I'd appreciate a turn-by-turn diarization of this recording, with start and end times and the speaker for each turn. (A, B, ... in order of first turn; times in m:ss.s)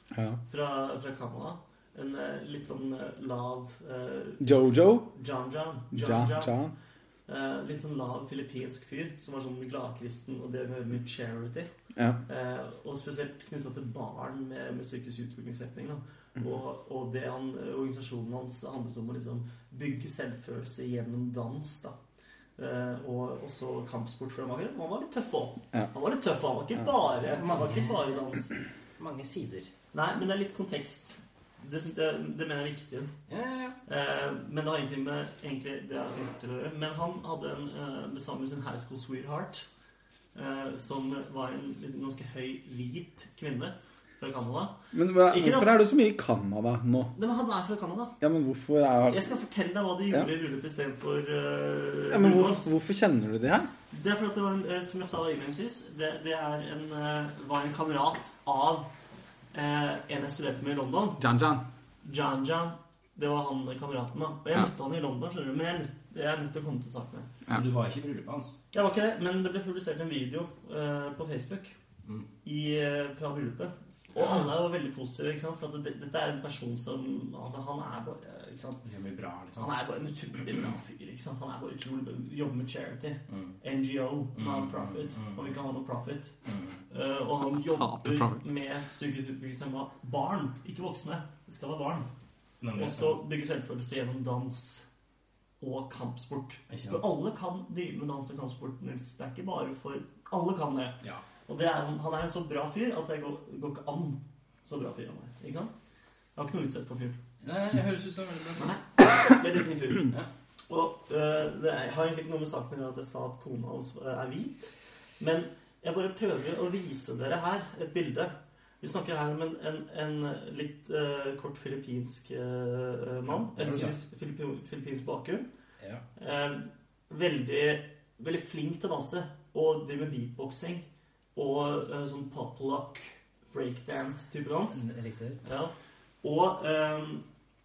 0:00.1-0:00.4 A
0:00.5-0:06.6 B
0:04.4-0:05.1 A
0:05.9-0:06.8 A
0:07.3-0:11.7 B
0:12.0-0:12.2 A
0:12.3-0:22.0 B
0:22.6-0:28.5 B
0:27.3-0:28.1 C
0:29.0-0:29.7 C
0:29.9-0:33.1 B
0:33.3-0:33.8 C
0:33.9-0:39.6 B
0:40.3-0:45.8 B
0:44.9-0:47.2 A
0:47.2-0:48.2 B
0:48.2-0:49.3 A
0:49.1-0:52.7 B
0:52.1-0:53.7 A
0:53.9-0:58.9 B
0:59.5-1:01.2 B
1:01.2-1:01.7 A
1:02.0-1:07.3 B
1:07.5-1:08.6 C
1:08.7-1:11.8 B
1:12.4-1:18.8 B
1:18.8-1:19.7 C
1:19.6-1:26.4 B
1:23.3-1:23.6 C
1:24.4-1:25.5 C
1:26.4-1:26.8 C
1:26.9-1:32.1 B
1:27.5-1:28.4 A
1:32.6-1:33.2 C
1:32.8-1:34.8 B
1:35.6-1:45.7 B
1:36.7-1:37.1 C
1:46.4-1:47.2 B
1:47.4-1:48.8 C
1:48.6-1:50.1 B
1:50.7-2:05.5 B
2:03.6-2:04.0 C
2:05.8-2:06.1 C
2:06.2-2:14.8 B
2:14.7-2:15.4 C
2:15.4-2:17.2 B